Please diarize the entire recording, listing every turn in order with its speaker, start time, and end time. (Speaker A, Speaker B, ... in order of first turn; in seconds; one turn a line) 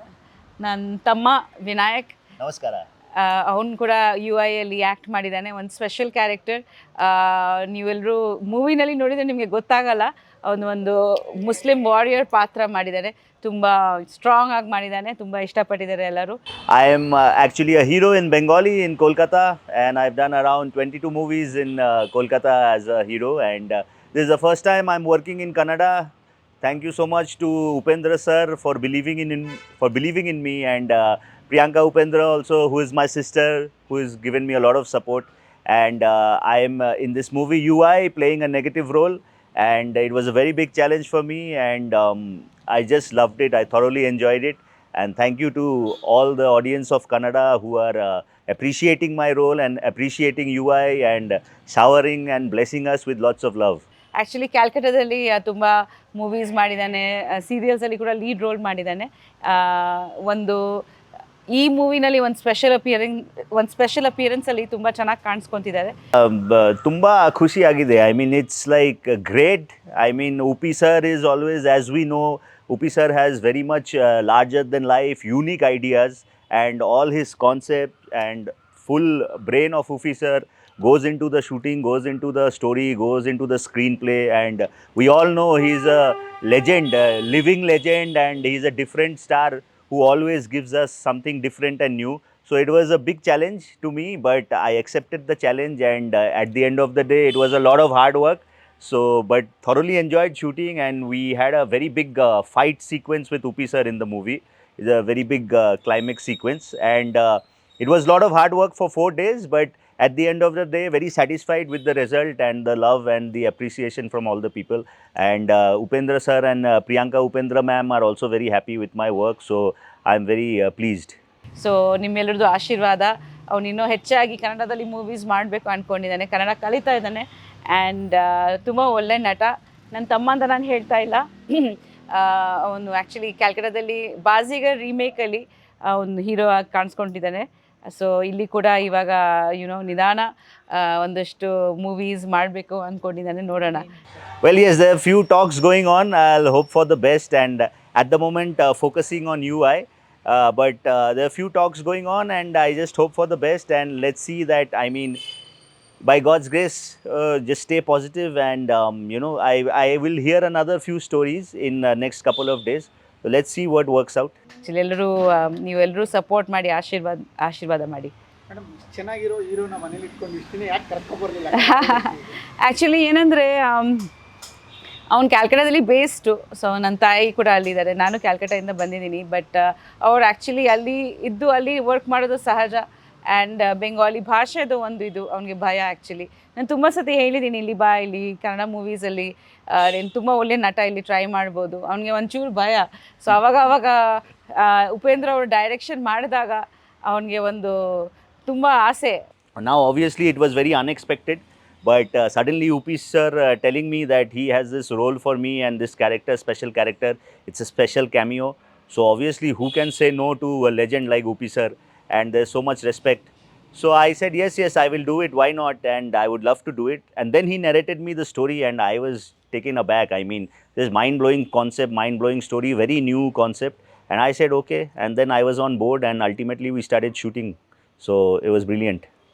Speaker A: 0.6-2.2
Speaker B: 2.4-2.8
Speaker A: 3.1-16.4
Speaker B: 16.7-26.1
Speaker B: 26.6-53.8
Speaker A: 54.2-60.8
Speaker A: 61.5-65.9
Speaker B: 66.2-121.2
Speaker A: 121.5-143.9
Speaker B: 144.4-155.2
Speaker B: 156.1-164.3
Speaker A: 164.6-168.1
Speaker C: 168.5-172.4
Speaker A: 171.5-172.0
Speaker A: 172.6-174.1
Speaker A: 175.1-199.2
Speaker B: 199.6-229.1